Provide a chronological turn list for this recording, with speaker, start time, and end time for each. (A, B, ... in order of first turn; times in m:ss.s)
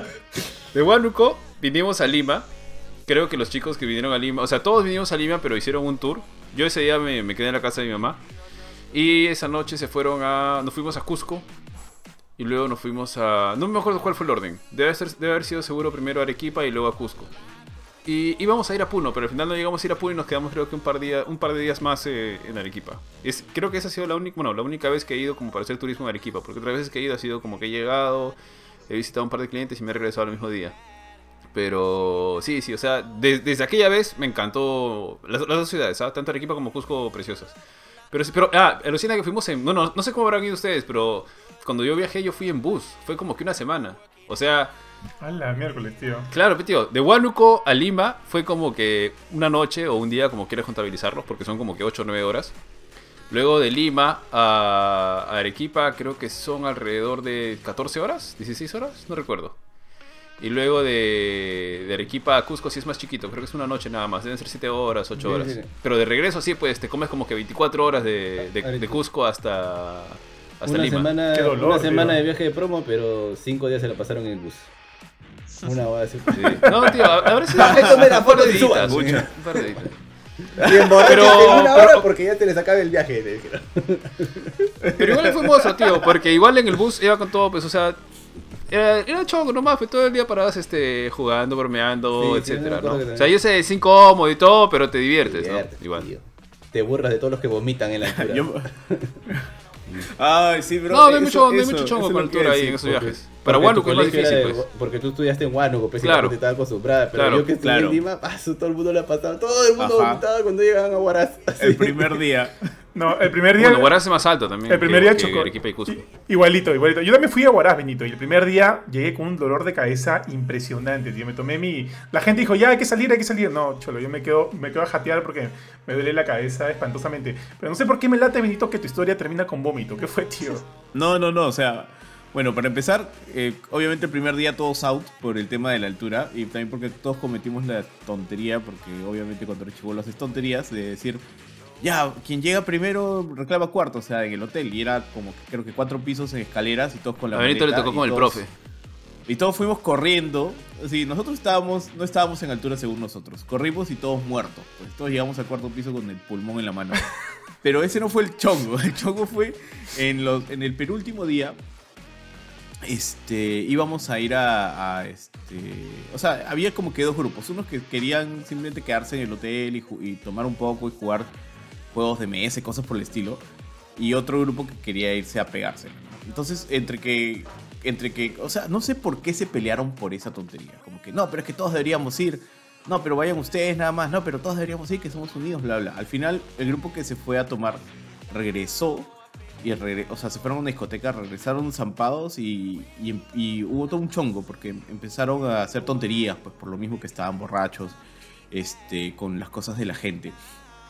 0:00.7-0:02.5 A
0:03.1-0:08.2 A
0:08.9-0:11.5 A
0:12.4-0:17.3 A
0:18.0-0:28.4 A
0:28.9-0:30.8 A
0:31.5-0:37.6 A
0:38.1-0:44.7 A
0:45.2-0:46.3 B
0:46.3-0:52.5 A
0:53.3-0:59.6 A
1:00.4-1:11.1 A
1:05.2-1:05.7 C
1:08.4-1:09.0 C
1:10.6-1:14.7 C
1:11.3-1:12.2 B
1:15.6-1:17.0 C
1:16.3-1:19.9 A
1:17.5-1:19.3 D
1:17.5-1:19.8 C
1:20.6-1:24.7 C
1:20.6-1:21.6 D
1:21.0-1:22.1 A
1:24.8-1:25.9 D
1:25.0-1:28.0 A
1:28.7-1:36.1 A
1:32.1-1:33.3 C
1:35.2-1:39.2 C
1:38.0-1:38.6 D
1:40.0-1:43.2 D
1:40.9-1:44.6 A
1:43.4-1:52.2 C
1:46.0-1:46.4 A
1:47.1-1:47.5 A
1:47.6-1:48.0 D
1:49.8-1:50.2 D
1:51.6-1:52.6 D
1:52.9-1:53.9 B
1:53.6-1:56.1 A
1:54.7-2:10.7 B
2:10.9-2:21.2 D
2:21.8-2:28.4 D
2:27.3-2:28.5 A
2:29.3-2:37.1 D
2:37.6-2:41.6 D
2:42.8-2:51.3 D
2:51.9-2:53.4 D
2:54.0-3:18.0 D
3:18.5-3:20.4 D